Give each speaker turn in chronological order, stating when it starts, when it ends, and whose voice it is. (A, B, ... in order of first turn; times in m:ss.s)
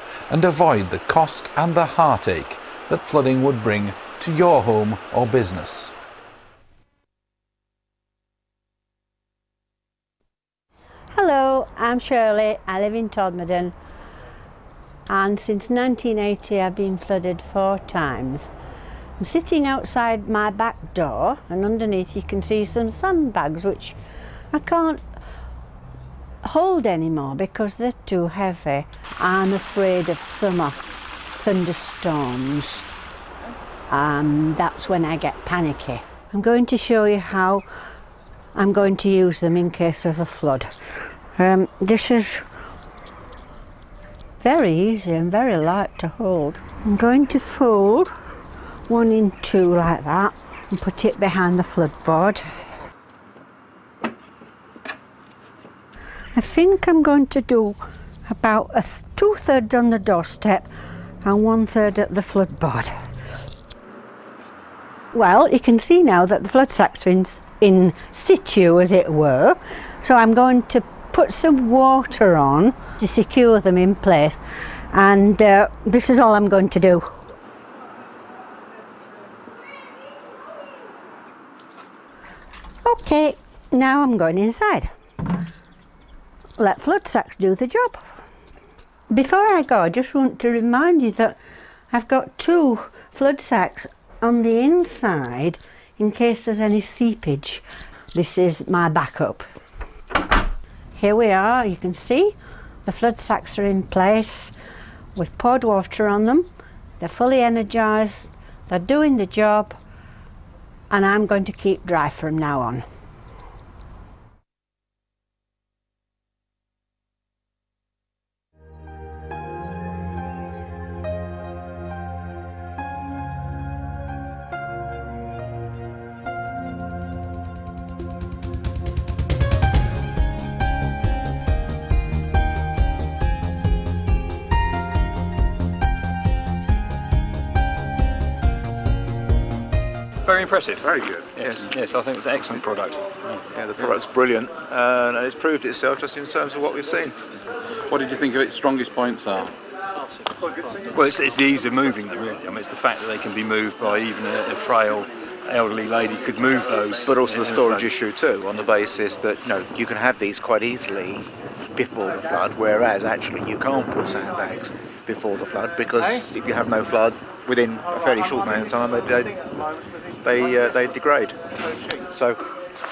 0:00.3-0:05.9 A
0:11.1-0:13.7 B
0:15.1-0:18.5 B
0:19.2-0:24.0 B
0:24.5-0:25.0 B
0:26.4-0:30.8 B
0:31.4-0:32.8 B
0:33.9-0:37.6 B
0:38.5-0:40.7 B
0:41.4-0:42.4 B
0:44.4-0:48.1 B
0:48.9-0:52.4 B
0:56.3-1:00.7 B
1:01.2-1:02.9 B
1:05.1-1:17.2 B
1:22.8-1:24.9 B
1:26.6-1:28.0 B
1:29.1-1:31.4 B
1:31.9-1:39.4 B
1:41.0-1:44.5 B
1:45.1-1:49.8 B
1:50.9-1:52.8 B
2:20.2-2:20.8 C
2:20.8-2:21.7 D
2:21.4-2:23.1 C
2:23.4-2:27.2 D
2:27.9-2:29.5 C
2:30.9-2:37.9 C
2:37.0-2:49.4 D
2:50.2-2:51.4 D
2:52.0-2:52.4 D